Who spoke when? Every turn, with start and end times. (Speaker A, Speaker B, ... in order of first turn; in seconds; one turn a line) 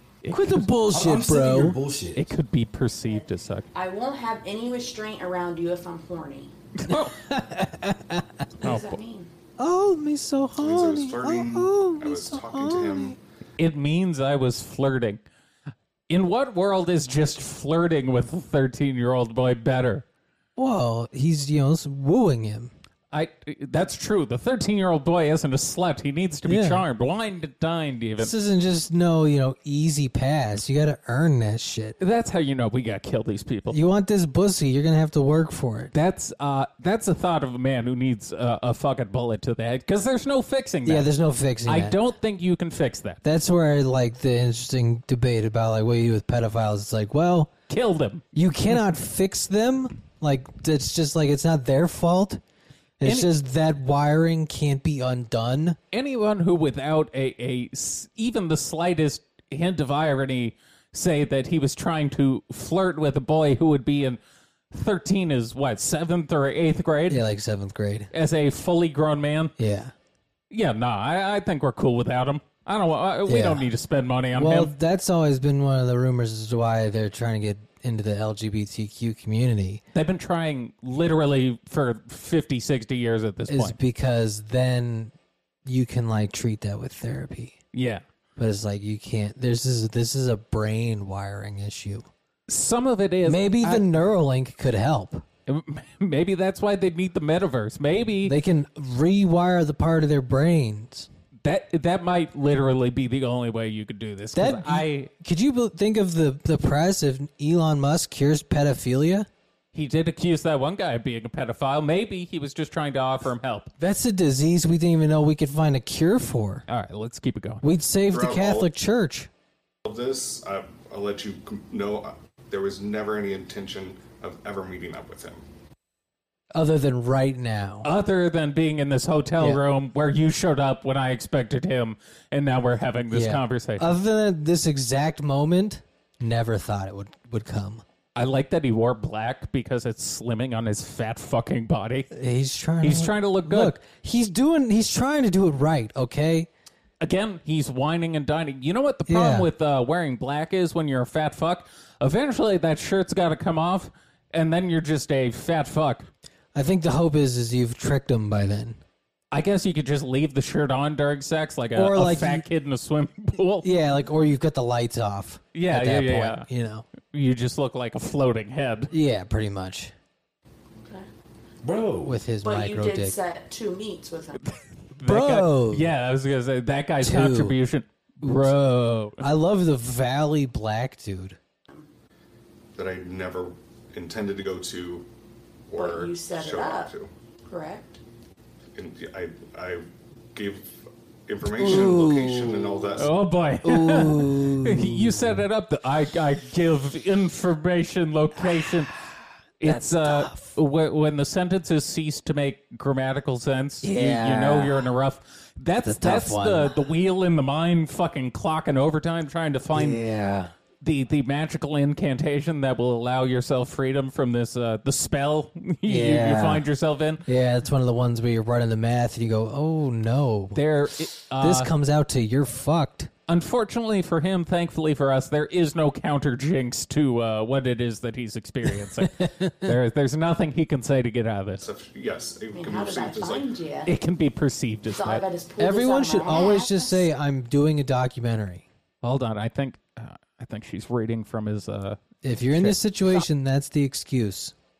Speaker A: 0.2-0.7
Speaker B: 0.3-1.8
Speaker C: 0.9-2.3
Speaker A: 2.1-3.6
Speaker D: 3.7-6.5
Speaker A: 6.8-7.1
Speaker B: 6.9-8.4
Speaker D: 8.6-9.3
Speaker A: 8.6-9.0
Speaker B: 9.6-13.2
Speaker E: 10.6-13.2
Speaker A: 13.6-15.2
Speaker A: 16.1-20.0
Speaker B: 20.6-22.7
Speaker A: 23.1-28.3
Speaker B: 26.4-26.8
Speaker B: 28.2-31.9
Speaker A: 32.0-33.8
Speaker B: 33.7-35.9
Speaker A: 35.9-41.1
Speaker B: 40.8-42.0
Speaker A: 41.6-43.2
Speaker B: 43.2-47.5
Speaker A: 47.7-48.2
Speaker B: 48.3-52.4
Speaker B: 53.0-55.8
Speaker A: 53.0-53.3
Speaker A: 55.9-64.2
Speaker A: 64.7-67.2
Speaker B: 67.1-68.1
Speaker A: 68.1-69.5
Speaker B: 69.6-69.9
Speaker A: 70.5-74.7
Speaker B: 73.2-73.7
Speaker B: 74.3-79.8
Speaker A: 79.9-83.8
Speaker B: 83.5-85.1
Speaker B: 85.7-87.6
Speaker A: 87.7-88.0
Speaker B: 88.4-92.1
Speaker A: 92.5-93.8
Speaker B: 93.2-95.2
Speaker A: 95.5-98.3
Speaker B: 98.2-101.1
Speaker A: 101.4-105.1
Speaker B: 104.3-109.3
Speaker A: 109.7-113.7
Speaker B: 113.8-116.6
Speaker A: 116.7-117.6
Speaker B: 117.6-119.3
Speaker E: 118.1-118.7
Speaker E: 119.8-125.4
Speaker B: 126.5-127.9
Speaker A: 127.8-133.9
Speaker B: 133.1-137.8
Speaker A: 138.1-142.1
Speaker B: 142.1-146.5
Speaker A: 142.8-143.8
Speaker A: 147.0-156.1
Speaker B: 149.1-149.5
Speaker B: 156.5-158.8
Speaker A: 159.3-163.7
Speaker B: 161.7-162.4
Speaker B: 163.6-166.8
Speaker A: 165.5-166.4
Speaker A: 167.0-168.9
Speaker B: 168.9-169.9
Speaker C: 171.6-172.2
Speaker B: 172.0-173.1
Speaker D: 172.4-174.4
Speaker A: 174.4-179.2
Speaker B: 175.0-175.9
Speaker B: 177.0-177.6
Speaker B: 178.2-181.4
Speaker E: 182.8-185.1
Speaker E: 185.7-187.1
Speaker D: 185.8-186.9
Speaker D: 187.5-188.0
Speaker E: 188.8-193.1
Speaker B: 191.4-193.0
Speaker A: 193.0-199.0
Speaker B: 193.6-195.4
Speaker A: 199.6-210.0
Speaker B: 199.6-200.5
Speaker B: 203.8-204.9
Speaker B: 205.8-206.8
Speaker B: 209.7-210.5
Speaker A: 210.8-217.2
Speaker B: 215.8-216.6
Speaker B: 217.2-220.6
Speaker A: 220.5-221.7
Speaker B: 221.3-223.1
Speaker A: 223.3-231.6
Speaker B: 228.8-229.7
Speaker E: 231.6-233.5
Speaker D: 232.5-233.9
Speaker A: 233.8-235.2
Speaker D: 234.9-237.1
Speaker B: 235.6-238.6
Speaker A: 239.0-242.0
Speaker B: 242.2-244.5